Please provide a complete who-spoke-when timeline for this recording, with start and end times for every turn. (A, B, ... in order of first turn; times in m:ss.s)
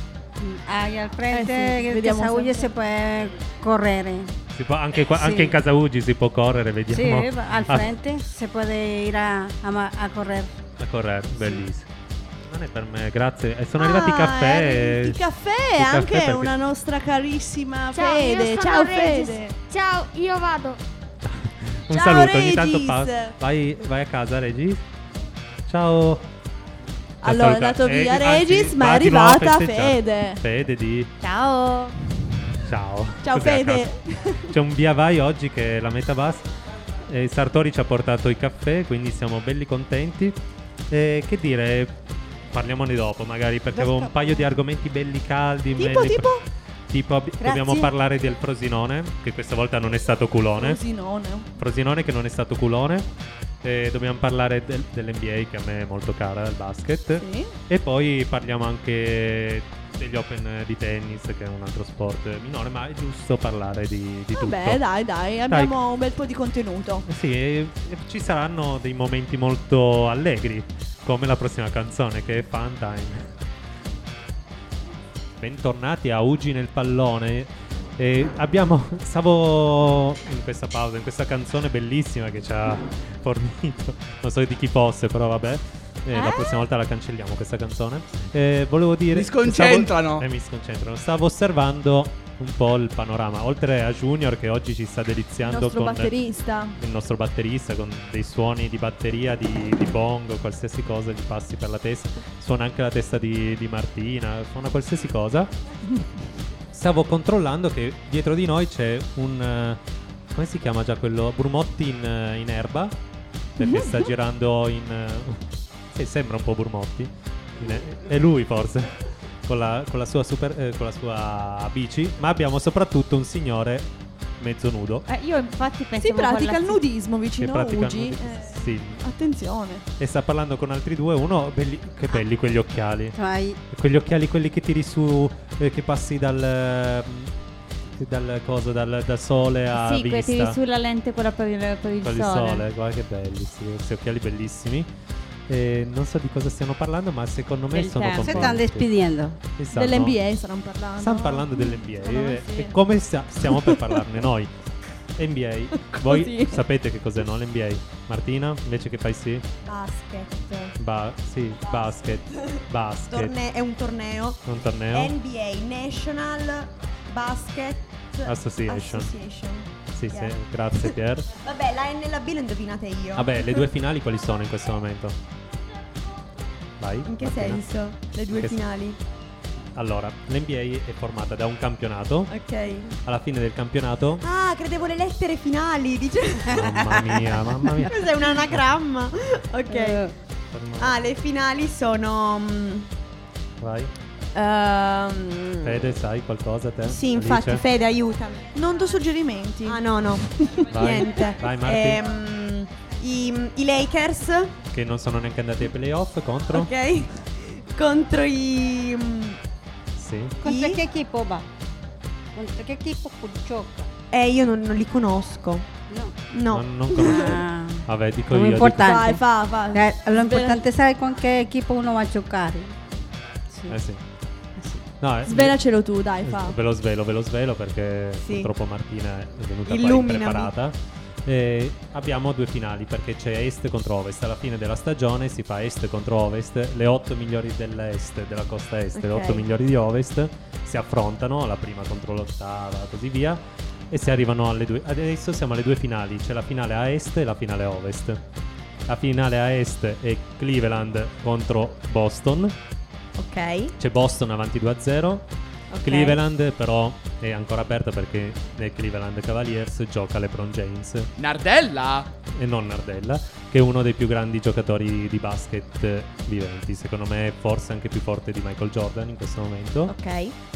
0:00.4-0:04.3 A
0:01.3-0:02.7 B
0:04.5-0:07.9 C
0:05.2-0:05.5 A
0:06.9-0:10.5 A
0:10.8-0:11.9 C
0:12.4-0:15.2 C
0:13.8-0:19.6 B
0:15.8-0:16.5 C
0:17.9-0:20.8 D
0:21.2-0:24.8 C
0:21.9-0:23.3 B
0:25.7-0:26.3 C
0:27.2-0:30.4 B
0:27.2-0:31.1 C
0:31.2-0:32.0 E
0:32.6-0:33.9 C
0:33.2-0:34.5 B
0:34.5-0:36.5 C
0:37.1-0:40.4 C
0:40.9-0:42.0 C
0:42.5-0:50.8 C
0:45.8-0:46.4 B
0:50.6-0:51.5 B
0:51.6-0:53.1 C
0:53.6-1:04.8 C
0:57.2-0:57.5 B
1:04.3-1:07.1 B
1:05.5-1:05.7 C
1:07.1-1:13.3 C
1:15.4-1:36.1 C
1:29.1-1:30.3 F
1:35.4-1:36.8 B
1:36.8-1:45.5 C
1:46.7-1:49.8 C
1:50.3-1:53.0 C
1:53.6-1:58.9 C
1:53.6-1:54.0 B
1:59.4-2:05.1 C
2:05.1-2:06.8 E
2:06.0-2:09.8 B
2:07.4-2:09.0 C
2:10.0-2:13.2 C
2:13.1-2:13.6 A
2:13.7-2:17.4 C
2:18.0-2:20.6 C
2:19.8-2:22.6 E
2:22.0-2:24.9 C
2:25.5-2:28.9 C
2:27.7-2:28.6 E
2:28.1-2:29.4 A
2:29.6-2:30.2 C
2:29.7-2:32.8 B
2:31.0-2:34.5 C
2:33.4-2:34.0 B
2:35.2-2:39.5 C
2:35.8-2:36.6 B
2:39.6-2:40.8 G
2:40.8-2:43.4 C
2:41.7-2:53.6 G
2:44.5-2:45.2 C
2:48.2-2:49.1 C
2:49.9-2:51.3 C
2:53.2-2:55.2 C
2:56.8-2:57.6 C
2:57.0-2:59.0 G
2:58.3-2:58.6 C
2:59.8-3:02.3 C
3:02.3-3:03.0 G
3:03.0-3:04.3 C
3:04.2-3:07.1 G
3:06.5-3:08.7 C
3:07.8-3:10.1 G
3:09.7-3:10.0 A
3:10.5-3:11.0 C
3:10.8-3:12.9 G
3:13.6-3:13.9 C
3:14.4-3:15.8 G
3:15.6-3:17.6 C
3:16.8-3:18.5 G
3:18.5-3:20.7 B
3:19.7-3:24.6 G
3:20.7-3:22.0 C
3:24.7-3:26.7 C
3:26.5-3:29.4 G
3:30.0-3:30.4 C
3:30.4-3:31.5 A
3:30.4-3:30.8 G
3:32.4-3:33.9 A
3:34.1-3:35.7 G
3:35.9-3:36.1 A
3:36.3-3:37.4 G
3:36.5-3:39.0 C
3:37.0-3:42.8 A
3:38.6-3:40.7 B
3:43.5-3:43.8 A
3:43.7-3:44.0 C
3:44.6-3:44.8 A
3:45.0-3:45.6 C
3:45.3-3:46.6 B
3:46.2-4:08.2 C
3:48.2-3:48.5 G
3:49.7-3:50.5 G
3:59.0-3:59.4 G
4:08.9-4:12.6 C
4:13.2-4:13.7 G
4:13.8-4:15.3 C
4:15.7-4:16.2 G
4:15.8-4:21.1 C
4:21.2-4:22.1 F
4:22.3-4:29.9 C
4:29.9-4:30.4 G